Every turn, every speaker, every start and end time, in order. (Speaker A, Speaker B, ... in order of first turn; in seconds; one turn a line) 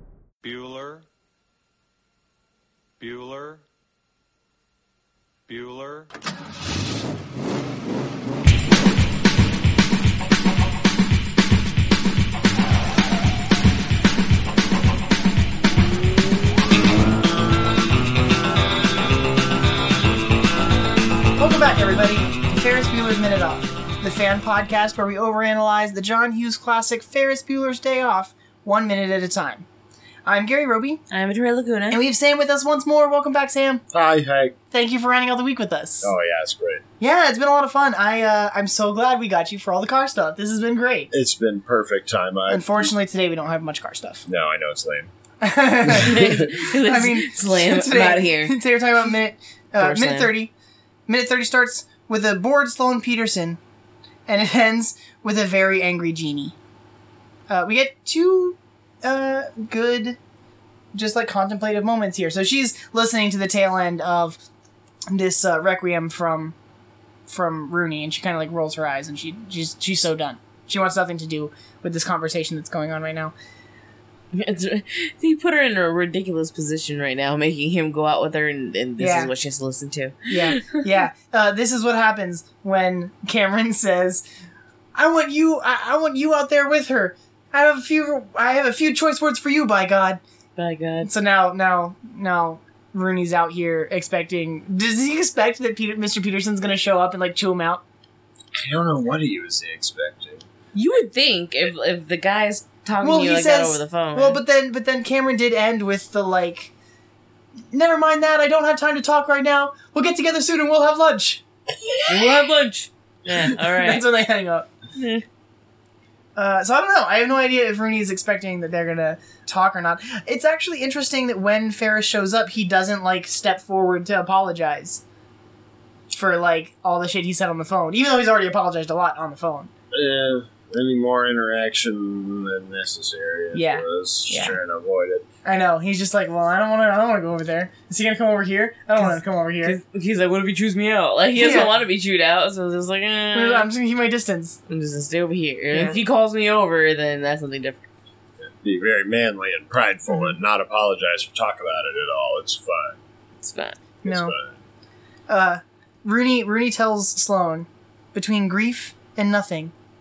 Speaker A: 0.4-1.1
Speaker A: 3.0-3.6
Speaker A: 5.5-6.1
Speaker B: 21.4-29.6
Speaker B: 30.2-31.0
Speaker C: 31.1-32.0
Speaker B: 31.9-33.8
Speaker D: 33.9-34.5
Speaker B: 34.7-36.1
Speaker D: 36.0-36.8
Speaker B: 37.0-41.1
Speaker D: 41.1-42.9
Speaker B: 42.5-44.3
Speaker D: 44.3-45.1
Speaker B: 45.4-50.5
Speaker C: 45.9-48.6
Speaker D: 46.0-46.4
Speaker C: 49.8-50.3
Speaker B: 51.1-53.6
Speaker B: 54.3-56.5
Speaker B: 57.5-60.2
Speaker B: 60.9-64.4
Speaker B: 65.1-66.5
Speaker B: 67.3-73.3
Speaker C: 74.3-80.8
Speaker B: 79.0-79.3
Speaker B: 80.3-84.2
Speaker B: 85.0-90.2
Speaker C: 90.6-91.1
Speaker B: 91.0-97.8
Speaker D: 98.6-100.5
Speaker C: 100.7-104.4
Speaker B: 103.0-106.7
Speaker B: 107.7-111.4
Speaker C: 112.1-114.1
Speaker B: 113.7-114.7
Speaker C: 115.0-115.2
Speaker B: 116.4-125.0
Speaker B: 126.1-129.7
Speaker D: 129.9-135.2
Speaker B: 133.5-134.6
Speaker B: 135.4-139.8
Speaker C: 139.0-143.7
Speaker B: 141.3-141.7
Speaker B: 143.3-144.6
Speaker C: 144.7-147.9
Speaker B: 145.7-146.0
Speaker D: 148.4-153.0
Speaker B: 150.1-150.3
Speaker C: 153.4-153.8
Speaker B: 154.0-154.3
Speaker D: 154.0-154.6
Speaker B: 155.3-159.7